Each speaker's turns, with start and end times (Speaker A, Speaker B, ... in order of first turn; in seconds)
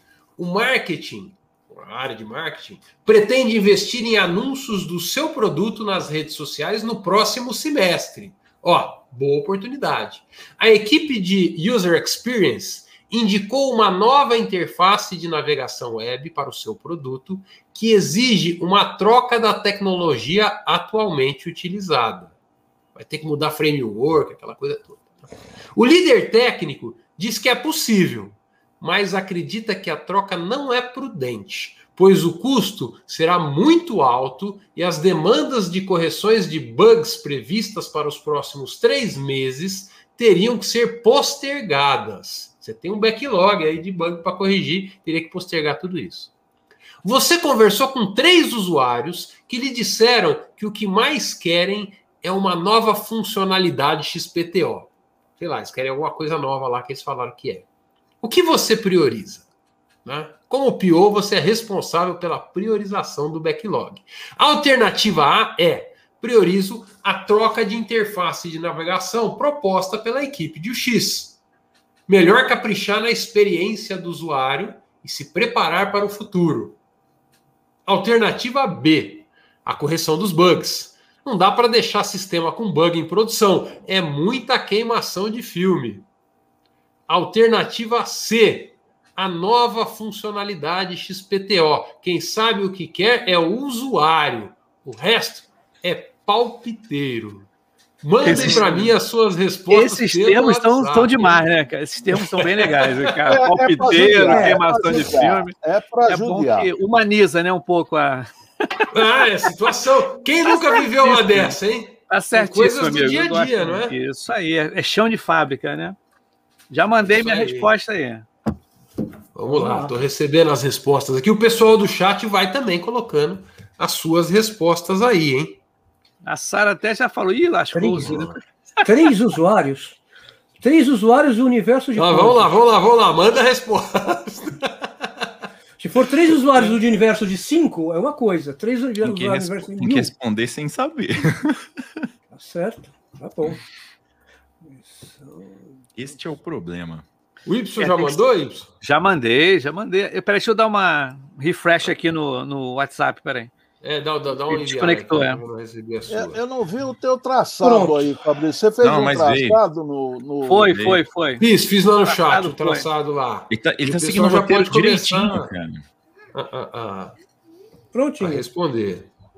Speaker A: 0.4-22.3, 22.9-25.1, 25.8-46.3, 47.0-57.7, 58.2-59.5, 60.0-71.4, 72.1-76.8, 77.9-86.1, 87.1-97.5, 98.0-101.5, 102.1-103.1, 108.9-114.0, 117.1-117.7, 119.3-125.6, 131.9-135.1, 147.5-148.7, 153.8-156.4, 161.4-165.5, 166.3-167.2, 168.2-169.1
Speaker B: 98.2-98.9, 99.7-105.5, 106.1-108.9, 110.5-111.6, 112.1-116.0, 116.7-118.3, 126.2-128.4, 147.8-148.2, 148.8-153.5, 154.5-155.4, 160.4-161.5, 162.1-162.9
Speaker C: 98.2-98.7, 104.2-104.6, 119.5-119.9, 127.7-128.3, 128.8-130.0, 130.6-132.5, 135.8-140.1, 142.3-143.6, 144.7-145.7, 157.6-158.1, 167.9-168.5
Speaker D: 103.3-106.7, 156.1-160.8
Speaker E: 128.0-128.3, 139.0-142.1, 146.0-147.1, 158.8-159.6, 160.7-161.0, 163.5-165.8